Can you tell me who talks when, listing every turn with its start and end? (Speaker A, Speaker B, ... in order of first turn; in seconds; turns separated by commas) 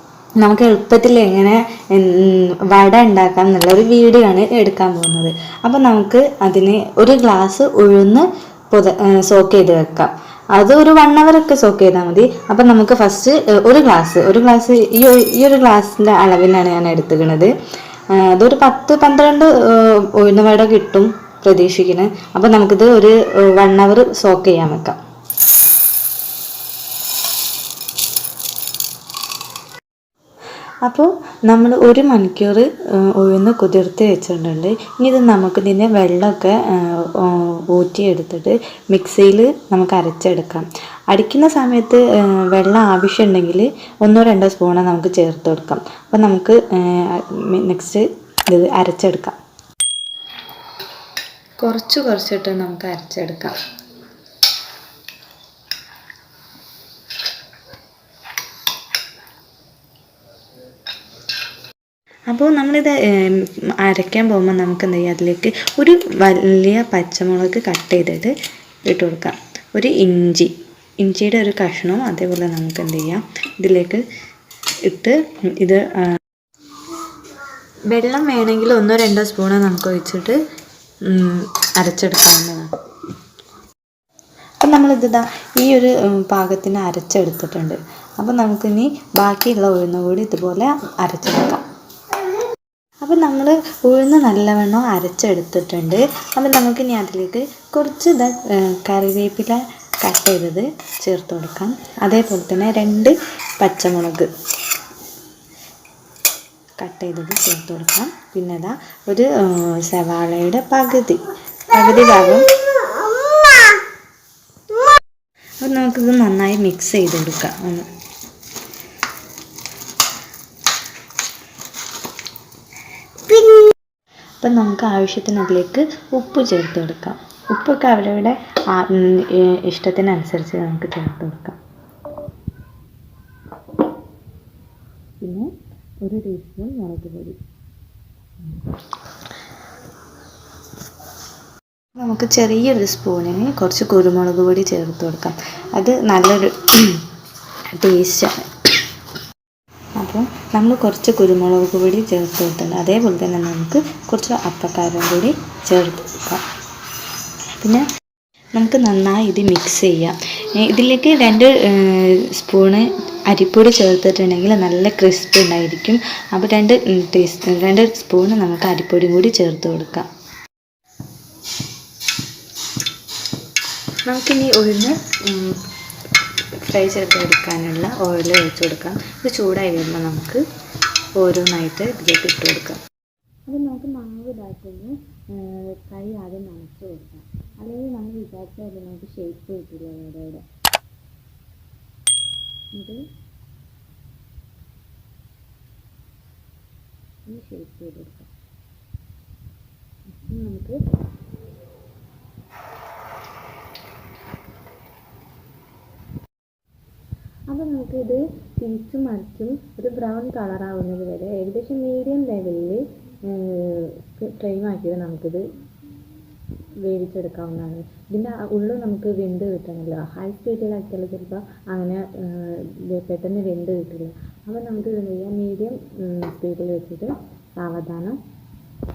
Speaker A: 0.4-17.5, Speaker A: 18.1-25.0, Speaker A: 30.8-49.4, Speaker A: 51.6-53.5, Speaker A: 62.3-68.3, Speaker A: 68.9-74.0, Speaker A: 74.8-76.2, Speaker A: 77.9-80.4, Speaker A: 81.1-82.7, Speaker A: 84.6-91.6, Speaker A: 93.0-104.3, Speaker A: 106.8-112.5, Speaker A: 115.6-117.9, Speaker A: 124.4-131.6, Speaker A: 135.2-135.5, Speaker A: 136.0-137.4, Speaker A: 142.0-147.0, Speaker A: 147.8-148.7, Speaker A: 150.0-156.4, Speaker A: 157.6-157.8, Speaker A: 158.5-170.1, Speaker A: 174.1-175.6, Speaker A: 176.6-180.4, Speaker A: 181.2-182.8, Speaker A: 183.5-190.4, Speaker A: 192.7-193.0, Speaker A: 197.3-198.3, Speaker A: 200.2-200.8, Speaker A: 207.5-215.4, Speaker A: 216.8-228.2